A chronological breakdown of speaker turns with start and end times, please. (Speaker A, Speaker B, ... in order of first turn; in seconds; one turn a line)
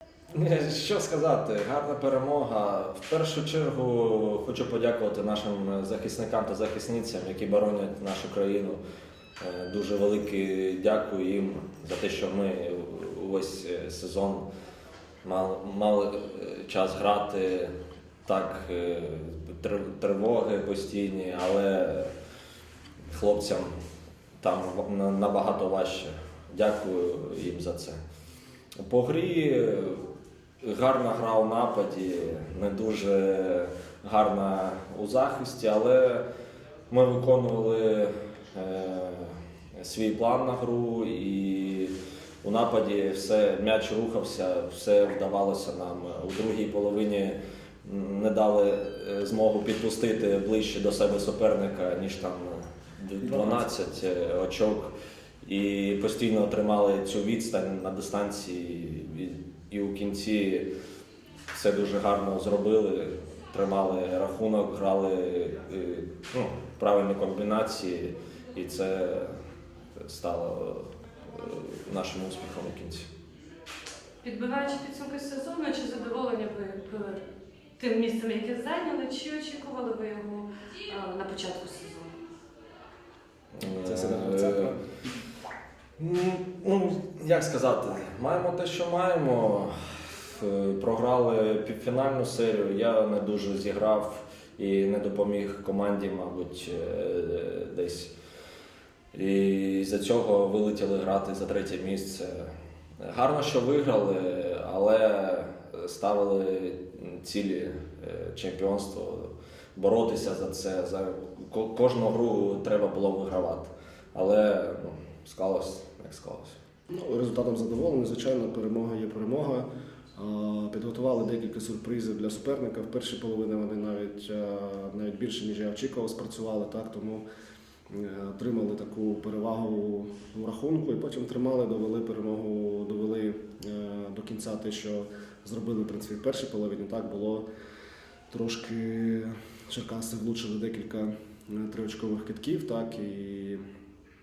Speaker A: 0.3-8.8
Speaker A: 9.4-14.4
Speaker A: 15.2-17.7
Speaker A: 18.2-22.1
Speaker A: 23.1-23.7
Speaker A: 24.4-28.0
Speaker A: 28.8-30.0
Speaker A: 30.6-36.2
Speaker A: 36.9-54.9
Speaker A: 55.4-60.7
Speaker A: 61.5-69.3
Speaker A: 70.0-73.1
Speaker B: 74.2-77.0
Speaker B: 77.8-82.1
Speaker A: 83.6-84.7
Speaker C: 83.7-84.8
Speaker A: 86.0-89.7
Speaker A: 90.3-98.1
Speaker A: 99.1-102.5
Speaker A: 103.0-116.6
Speaker C: 116.9-127.2
Speaker C: 127.9-137.4
Speaker C: 138.3-143.6